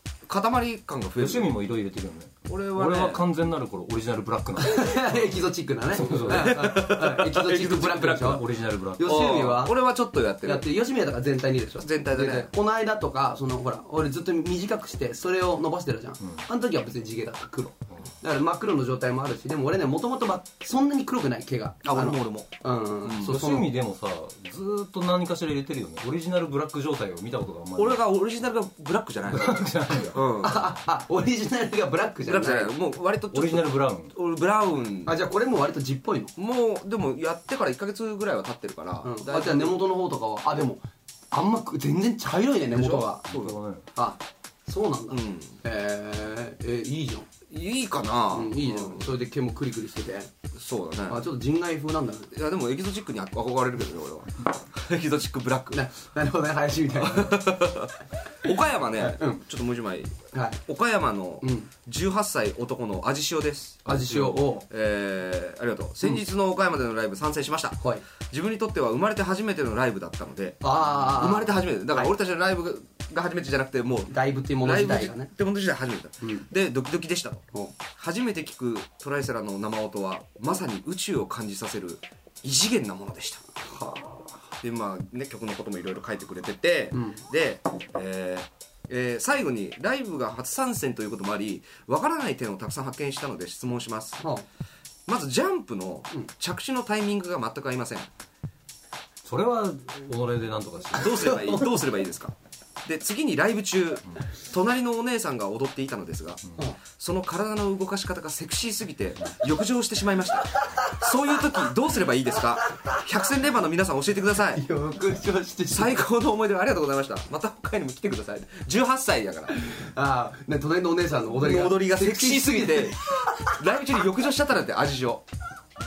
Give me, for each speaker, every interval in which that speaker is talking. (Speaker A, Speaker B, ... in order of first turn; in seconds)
Speaker A: 0.3-1.6, 2.5-3.2, 6.0-8.4, 9.0-10.7, 11.8-12.5, 21.8-22.5, 23.0-23.4, 27.8-30.7, 32.2-35.1, 36.4-39.8, 42.7-43.6, 45.1-45.6, 47.5-49.1, 50.5-51.2, 52.3-55.8, 56.9-83.4, 84.6-94.2, 95.1-98.1, 100.9-114.6, 115.7-119.5, 121.3-125.2
Speaker B: 1.2-6.8, 7.8-9.4, 23.2-28.0, 29.3-30.2, 33.3-34.1, 43.3-43.9, 99.2-101.4
Speaker C: 4.6-8.4, 9.0-9.8, 10.4-23.7, 30.4-32.7, 35.1-36.3, 39.0-43.2, 43.9-47.3, 48.3-50.3, 51.1-52.3, 55.7-57.7, 58.4-59.4, 60.3-60.6, 61.4-61.7, 63.9-64.7, 70.6-72.1, 74.1-75.3, 76.2-76.5, 83.6-84.3, 86.9-87.2, 94.2-94.4, 101.3-101.7, 110.6-111.1, 112.7-113.0, 114.5-116.0, 119.5-123.6